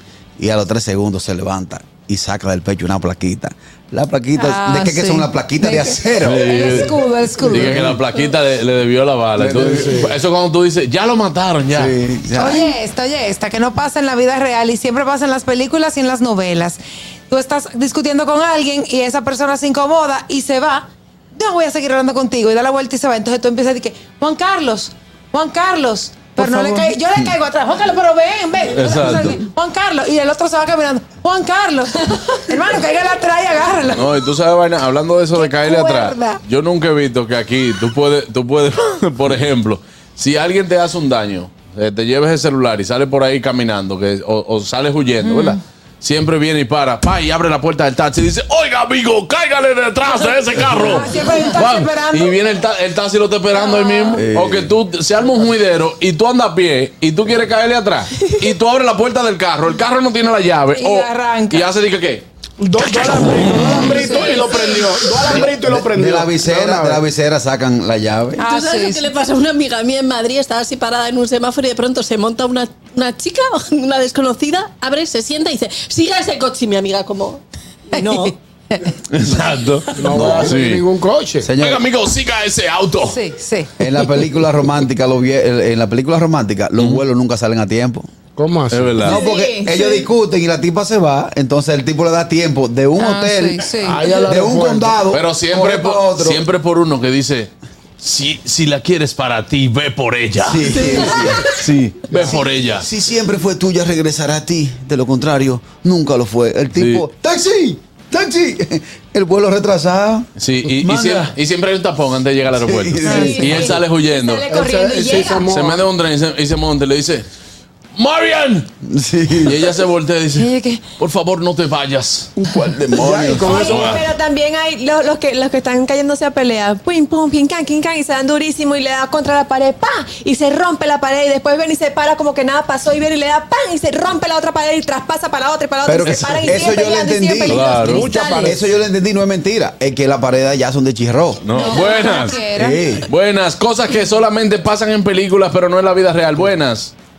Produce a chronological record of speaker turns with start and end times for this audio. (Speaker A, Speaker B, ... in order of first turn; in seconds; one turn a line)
Speaker A: 0.4-6.5
Speaker B: 4.3-7.9
Speaker C: 6.2-11.9
Speaker A: 9.4-10.1
Speaker A: 11.7-12.7
Speaker B: 12.3-34.2
Speaker A: 26.4-27.3
Speaker C: 28.7-29.4
Speaker C: 33.9-62.2
Speaker B: 35.3-36.4
Speaker B: 45.2-45.6
Speaker B: 50.5-52.4
Speaker B: 53.5-54.2
Speaker A: 54.1-54.8
Speaker B: 60.7-61.7
Speaker D: 62.6-67.0
Speaker C: 63.2-63.9
Speaker B: 63.7-64.4
Speaker E: 64.2-64.6
Speaker A: 65.3-68.4
Speaker B: 68.4-69.1
Speaker E: 68.4-78.3
Speaker B: 78.0-78.9
Speaker C: 79.1-80.9
Speaker D: 80.0-81.5
Speaker A: 80.1-80.6
Speaker A: 81.4-81.8
Speaker C: 81.6-83.2
Speaker B: 83.0-83.7
Speaker A: 83.8-88.1
Speaker C: 86.8-87.0
Speaker D: 88.3-89.1
Speaker C: 88.7-89.2
Speaker A: 89.0-96.5
Speaker F: 89.0-90.1
Speaker B: 93.0-94.1
Speaker D: 93.8-95.0
Speaker C: 95.1-102.9
Speaker A: 100.4-101.5
Speaker A: 102.1-110.3
Speaker C: 106.8-107.0
Speaker C: 110.4-114.5
Speaker A: 110.8-111.3
Speaker A: 112.5-113.8
Speaker B: 113.0-113.7
Speaker F: 113.1-115.5
Speaker D: 114.5-115.9
Speaker C: 115.3-117.2
Speaker C: 117.9-118.7
Speaker A: 118.8-119.7
Speaker C: 119.4-122.3
Speaker B: 120.3-120.8
Speaker A: 122.4-123.9
Speaker D: 122.9-124.0
Speaker F: 123.4-138.6
Speaker C: 123.5-124.0
Speaker A: 135.8-141.4
Speaker C: 137.5-138.1
Speaker D: 137.9-138.6
Speaker C: 141.4-142.4
Speaker B: 141.5-142.8
Speaker A: 142.5-143.1
Speaker C: 143.1-146.9